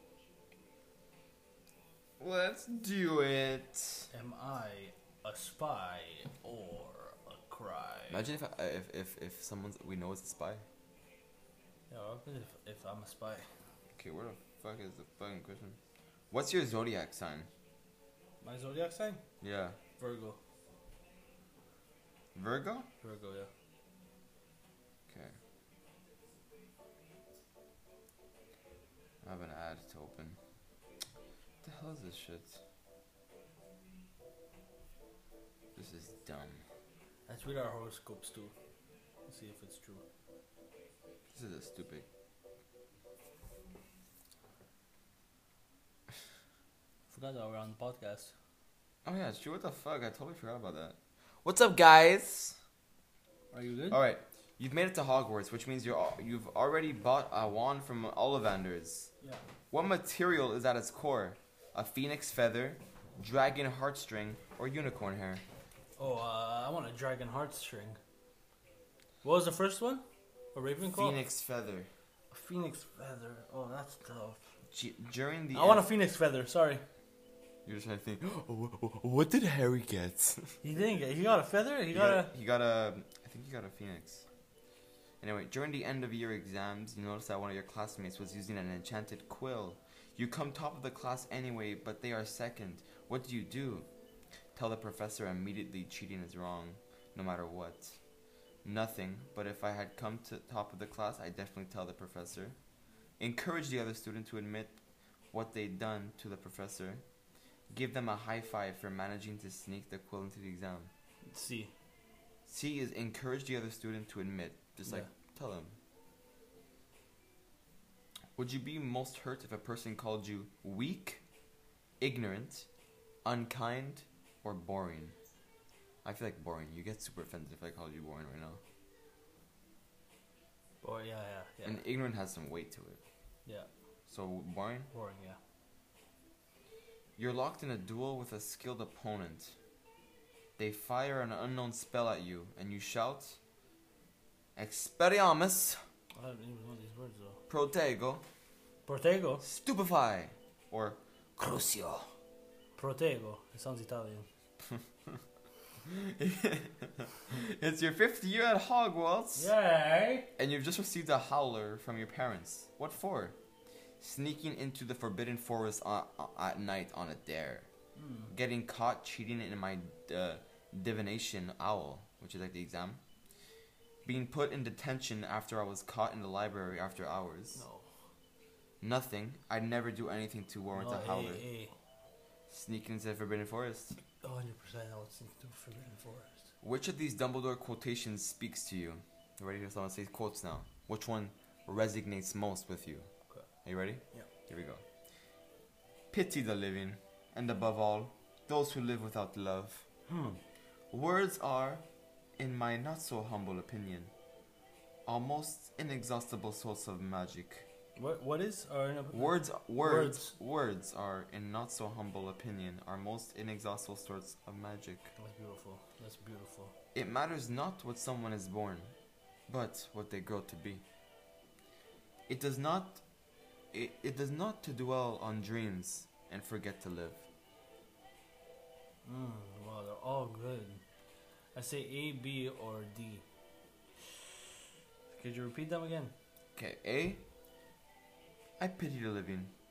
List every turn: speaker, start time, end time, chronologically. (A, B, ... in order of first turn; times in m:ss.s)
0:02.2-0:04.1 A
0:04.1-0:08.2 B
0:08.1-0:10.6 A
0:11.9-0:13.5 B
0:14.0-0:15.8 A
0:16.3-0:17.5 A
0:18.4-0:19.2 B
0:19.4-0:19.8 A
0:20.0-0:20.4 B
0:22.4-0:22.9 A
0:23.0-0:23.5 B
0:25.1-0:25.3 A
0:29.2-0:30.4 A
0:31.6-0:32.6 A
0:35.8-0:36.6 A
0:37.3-0:38.5 B
0:39.3-0:40.0 B
0:41.3-0:42.1 A
0:47.1-0:48.3 B
0:49.0-0:52.6 A
0:53.5-0:54.0 B
0:53.9-0:59.1 A
0:59.7-1:05.4 A
1:06.0-1:08.0 B
1:09.2-1:10.0 B
1:10.6-1:11.2 B
1:10.9-1:11.9 A
1:12.3-1:14.5 B
1:14.7-1:15.9 A
1:15.5-1:16.8 B
1:17.6-1:20.6 A
1:20.6-1:22.3 B
1:21.9-1:24.3 A
1:25.2-1:33.9 A
1:34.6-1:38.0 A
1:38.6-1:42.6 A
1:43.2-1:44.8 A
1:45.3-1:47.0 A
1:47.7-1:50.9 A
1:51.3-1:51.7 B
1:52.5-1:55.8 A
1:58.4-2:01.2 A
2:02.0-2:02.7 A
2:03.2-2:05.2 A
2:06.0-2:08.6 A
2:10.8-2:11.8 B
2:11.6-2:13.0 A
2:14.1-2:14.9 A
2:14.9-2:15.4 B
2:17.2-2:19.6 A
2:20.6-2:23.4 A
2:24.6-2:25.8 A
2:26.2-2:27.4 B
2:27.5-2:28.2 A
2:28.9-2:29.4 B
2:29.4-2:32.1 A
2:32.8-2:34.3 B
2:35.8-2:39.5 A
2:39.4-2:40.3 B
2:40.4-2:43.4 A
2:44.0-2:47.7 A
2:48.0-2:48.3 B
2:48.3-2:53.0 A
2:54.0-2:57.6 A
2:57.6-2:57.9 B
2:58.8-3:01.4 A
3:00.8-3:01.7 B
3:02.5-3:04.0 A
3:04.2-3:06.5 B
3:06.6-3:13.1 A
3:13.6-3:14.8 A
3:16.1-3:19.8 A
3:20.1-3:20.4 B
3:20.9-3:21.8 A
3:22.4-3:24.1 A
3:25.1-3:27.7 A
3:28.0-3:30.3 B
3:29.1-3:35.1 A
3:35.2-3:36.7 B
3:37.0-3:38.9 A
3:39.5-3:40.8 A
3:42.3-3:43.0 A
3:43.7-3:47.2 A
3:49.0-3:50.8 B
3:51.6-3:53.2 B
3:55.1-3:56.1 B
3:56.6-3:57.2 A
3:58.6-3:59.5 A